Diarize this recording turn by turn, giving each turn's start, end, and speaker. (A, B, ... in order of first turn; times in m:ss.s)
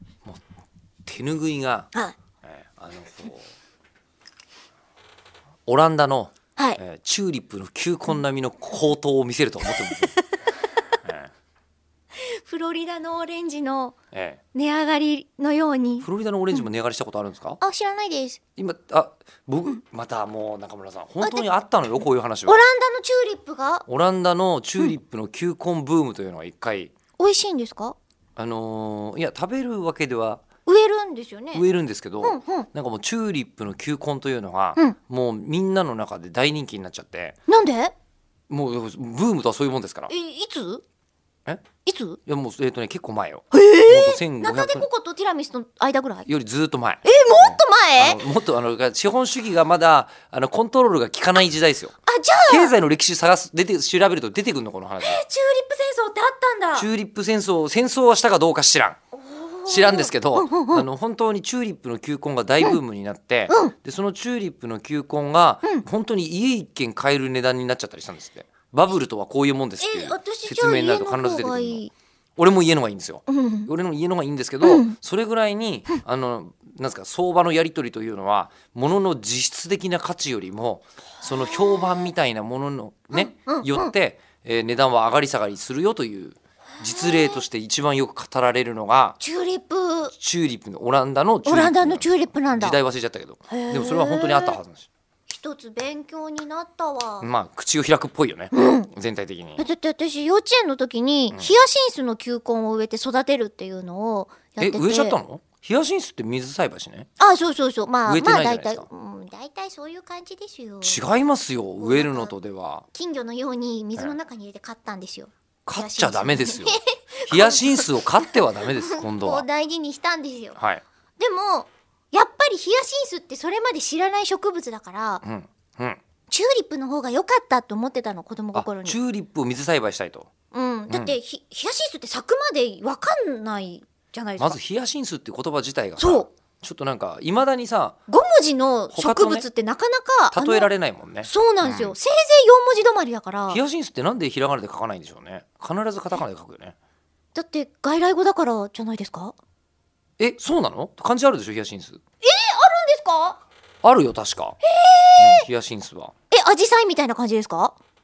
0:01.1-0:01.9 A
0:02.4-0:03.5 A
0:05.7-0:10.2 A
0:09.7-0:10.2 B
0:11.0-0:11.3 A
0:12.1-0:14.0 B
0:14.1-0:14.4 A
0:14.5-0:16.7 B
0:16.0-0:17.6 A
0:17.6-0:18.4 B
0:18.6-0:22.6 A
0:21.2-0:21.5 B
0:22.5-0:23.9 B
0:23.9-0:26.9 A
0:27.2-0:28.0 B
0:28.4-0:30.4 A
0:30.7-0:31.6 B
0:31.5-0:37.4 A
0:32.2-0:32.7 B
0:37.5-0:37.9 B
0:38.5-0:40.1 A
0:40.1-0:40.8 B
0:41.8-0:42.2 B
0:42.3-0:44.9 A
0:43.5-0:46.3 B
0:46.3-0:52.0 A
0:47.0-0:48.2 B
0:52.1-0:52.8 B
0:52.5-0:55.2 A
0:55.0-0:56.9 B
0:56.8-0:59.0 A
0:59.1-1:00.9 B
0:59.7-1:11.8 A
1:03.5-1:03.7 B
1:09.8-1:11.9 B
1:12.4-1:29.2 A
1:13.3-1:13.7 B
1:14.6-1:15.0 B
1:21.2-1:22.1 B
1:23.1-1:23.9 B
1:26.8-1:27.4 B
1:29.2-1:30.1 B
1:30.1-1:34.9 A
1:31.4-1:32.8 B
1:33.5-1:34.6 B
1:35.3-1:37.3 B
1:37.2-1:39.6 A
1:38.5-1:38.9 B
1:39.6-1:45.2 B
1:44.6-1:47.1 A
1:47.2-1:51.0 B
1:48.1-1:48.9 A
1:50.8-1:52.8 A
1:51.8-1:52.3 B
1:52.9-2:00.6 B
1:55.7-1:59.4 A
2:00.6-2:00.8 A
2:01.2-2:05.2 B
2:05.2-2:06.0 A
2:06.3-2:09.0 B
2:08.5-2:10.3 A
2:10.5-2:14.6 B
2:10.9-2:11.2 A
2:14.4-2:18.0 A
2:16.0-2:16.3 B
2:18.1-2:20.7 B
2:18.9-2:19.5 A
2:20.3-2:22.0 A
2:21.2-2:23.6 B
2:23.5-2:26.8 A
2:27.4-2:29.4 B
2:30.2-2:32.0 A
2:32.2-2:33.4 B
2:33.8-2:34.6 A
2:34.6-2:35.5 B
2:35.2-2:36.1 A
2:36.3-2:37.8 B